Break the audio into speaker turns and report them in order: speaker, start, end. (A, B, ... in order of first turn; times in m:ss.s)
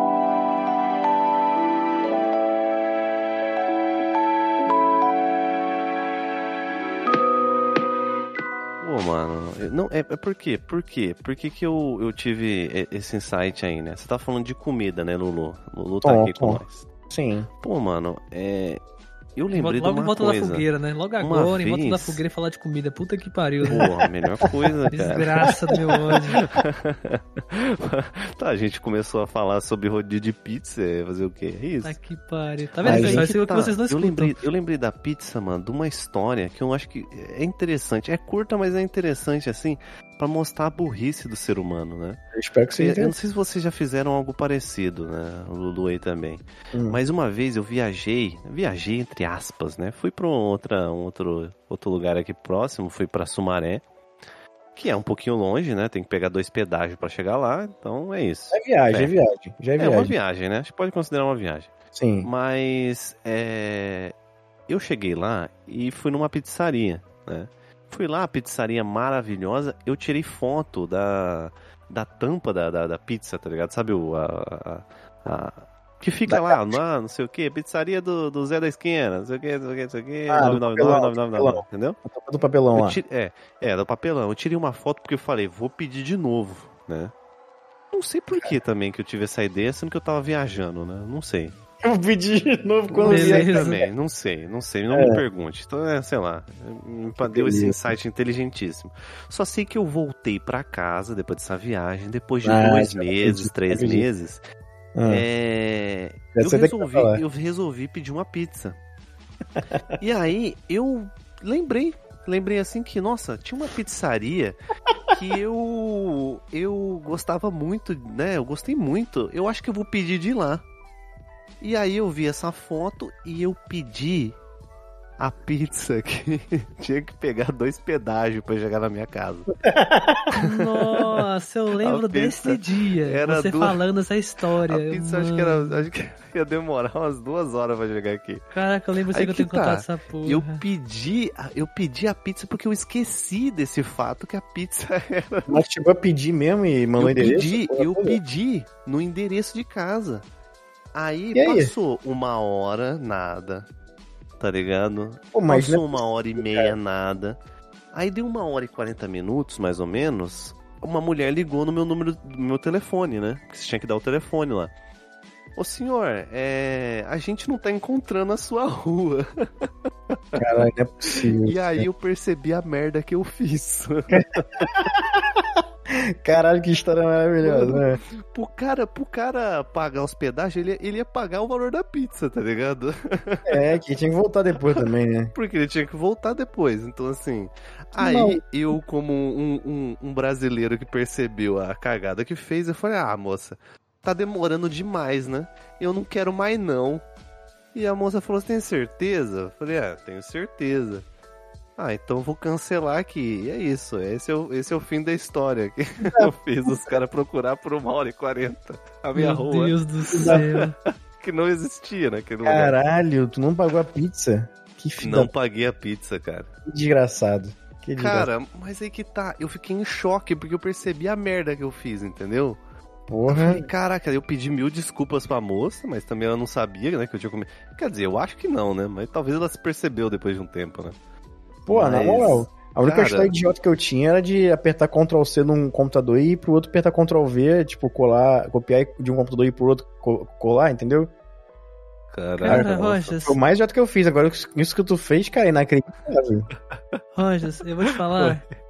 0:08.8-0:16.9 A
0:16.0-0:17.5 B
0:17.6-0:18.8 A
0:19.4-0:20.7 A
0:19.5-0:23.9 C
0:21.2-0:22.2 A
0:23.7-0:25.6 A
0:24.4-0:24.8 B
0:24.9-0:26.4 C
0:26.6-0:32.0 A
0:31.8-0:34.4 C
0:32.8-0:42.2 A
0:32.8-0:33.3 B
0:42.3-0:43.1 B
0:42.8-0:53.8 A
0:46.7-0:47.0 B
0:54.7-0:59.1 A
0:58.5-1:00.2 B
0:59.8-1:04.1 A
1:01.9-1:02.3 B
1:04.7-1:22.0 A
1:16.2-1:16.8 B
1:20.3-1:23.0 B
1:22.7-1:27.1 A
1:27.9-1:31.6 A
1:31.8-1:33.9 B
1:32.9-1:44.4 A
1:33.0-1:33.7 C
1:34.9-1:35.2 B
1:37.1-1:37.9 B
1:42.4-1:44.1 B
1:44.9-1:45.2 B
1:45.0-1:48.8 A
1:46.3-1:47.2 B
1:49.6-1:50.0 B
1:50.0-1:54.6 A
1:55.1-2:00.6 A
2:01.6-2:04.4 A
2:05.2-2:09.6 A
2:09.6-2:10.2 B
2:10.3-2:15.9 C
2:10.4-2:11.3 A
2:11.8-2:13.8 A
2:14.7-2:18.5 A
2:18.5-2:20.6 C
2:19.1-2:25.6 A
2:25.5-2:28.2 B
2:27.0-2:30.3 A
2:30.9-2:33.7 A
2:31.3-2:31.7 B
2:34.4-2:37.4 A
2:35.3-2:36.8 B
2:37.9-2:44.7 A
2:45.6-2:49.7 A
2:50.3-2:51.9 B
2:51.4-2:54.7 A
2:54.1-2:58.0 B
2:57.4-3:03.6 A
3:03.5-3:05.3 B
3:04.6-3:17.1 A
3:08.0-3:08.4 B
3:17.7-3:21.0 A
3:21.8-3:30.5 A
3:26.2-3:27.0 B
3:29.1-3:30.7 C
3:30.2-3:30.4 B
3:31.2-3:32.8 A
3:32.4-3:35.3 B
3:35.0-3:36.5 A
3:36.7-3:38.3 B
3:38.0-3:42.6 A
3:43.1-3:43.7 B
3:43.3-3:51.0 A
3:51.7-4:01.1 B
3:51.7-3:53.3 A
4:02.1-4:03.0 A
4:02.4-4:03.4 C
4:02.4-4:06.5 B
4:07.2-4:08.4 C
4:08.2-4:08.5 A